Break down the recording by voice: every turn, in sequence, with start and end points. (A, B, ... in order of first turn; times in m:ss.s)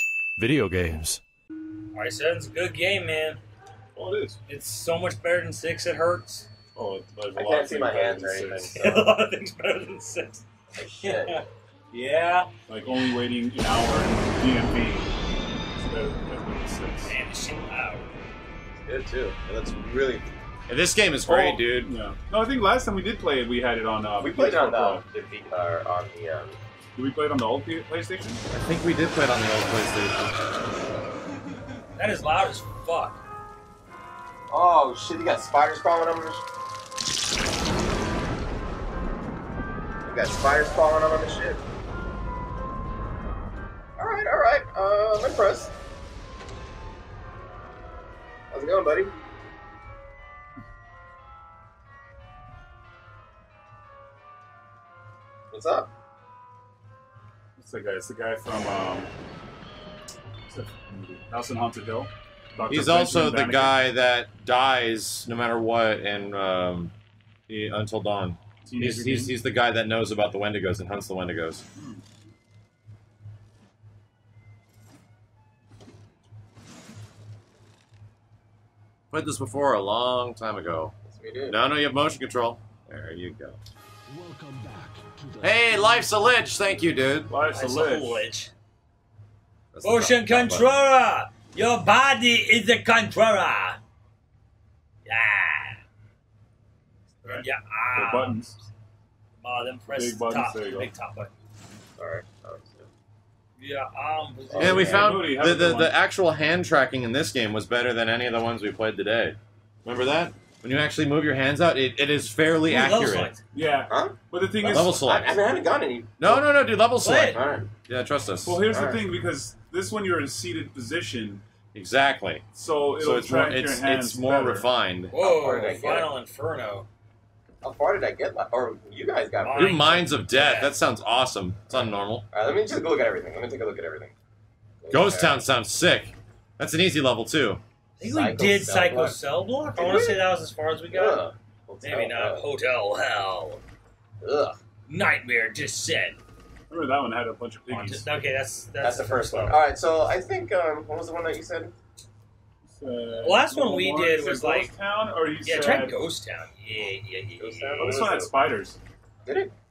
0:00.4-0:01.2 A
0:01.9-0:03.4 B
0:04.0-0:04.4 C
0:04.5-0:06.5 B
0:06.8-0:08.8 C
0:07.3-0:09.1 D
0:08.7-0:10.4 B
0:10.8-0:11.4 D
0:11.0-0:12.5 B
0:12.7-0:15.1 C
0:15.8-0:17.1 C
0:17.0-0:18.0 B
0:18.8-0:20.3 D
0:20.7-0:21.9 A
0:21.3-0:25.0 C
0:24.2-0:26.6 D
0:27.0-0:28.4 C
0:28.5-0:30.2 A
0:32.0-0:33.2 B
0:34.5-0:36.4 D
0:40.0-0:41.6 D
0:44.0-0:45.7 D
0:48.5-0:49.1 D
0:55.5-0:55.9 D
0:57.6-0:59.1 C
1:00.5-1:03.8 C
1:02.7-1:06.9 A
1:07.5-1:11.6 A
1:08.7-1:09.3 C
1:11.8-1:12.0 C
1:19.1-1:21.0 A
1:21.1-1:21.6 D
1:21.5-1:23.6 A
1:24.1-1:26.5 E
1:25.4-1:27.3 A
1:27.3-1:28.2 C
1:27.5-1:28.5 B
1:29.7-1:30.7 A
1:29.8-1:33.8 B
1:35.1-1:35.8 B
1:37.2-1:38.6 C
1:37.3-1:38.4 B
1:39.4-1:41.3 B
1:39.9-1:40.9 C
1:42.0-1:42.9 D
1:43.6-1:45.2 B
1:44.5-1:45.0 D
1:44.6-1:46.0 C
1:44.6-1:53.3 A
1:52.7-1:53.4 B
1:53.5-1:55.0 C
1:53.9-1:54.2 D
1:54.6-1:55.4 A
1:55.0-1:56.5 D
1:56.2-1:58.6 A
1:57.0-1:57.4 B
1:57.3-1:57.7 D
1:58.4-2:01.4 C
1:58.7-1:59.0 D
2:01.7-2:02.5 A
2:02.5-2:04.7 C
2:03.0-2:05.1 A
2:05.1-2:06.9 B
2:05.2-2:06.1 D
2:07.6-2:09.9 D
2:09.4-2:10.7 B
2:09.6-2:12.3 A
2:12.3-2:14.1 D
2:14.8-2:15.4 D
2:14.9-2:17.6 A
2:18.0-2:21.2 B
2:18.0-2:19.2 D
2:19.8-2:20.2 D
2:20.9-2:22.4 D
2:21.8-2:23.6 B
2:24.2-2:24.6 D
2:24.9-2:26.2 B
2:26.7-2:28.1 C
2:27.7-2:29.6 B
2:28.8-2:31.7 D
2:32.7-2:36.0 C
2:33.2-2:34.7 B
2:35.4-2:38.2 B
2:37.4-2:38.3 D
2:37.8-2:38.8 C
2:39.2-2:39.5 D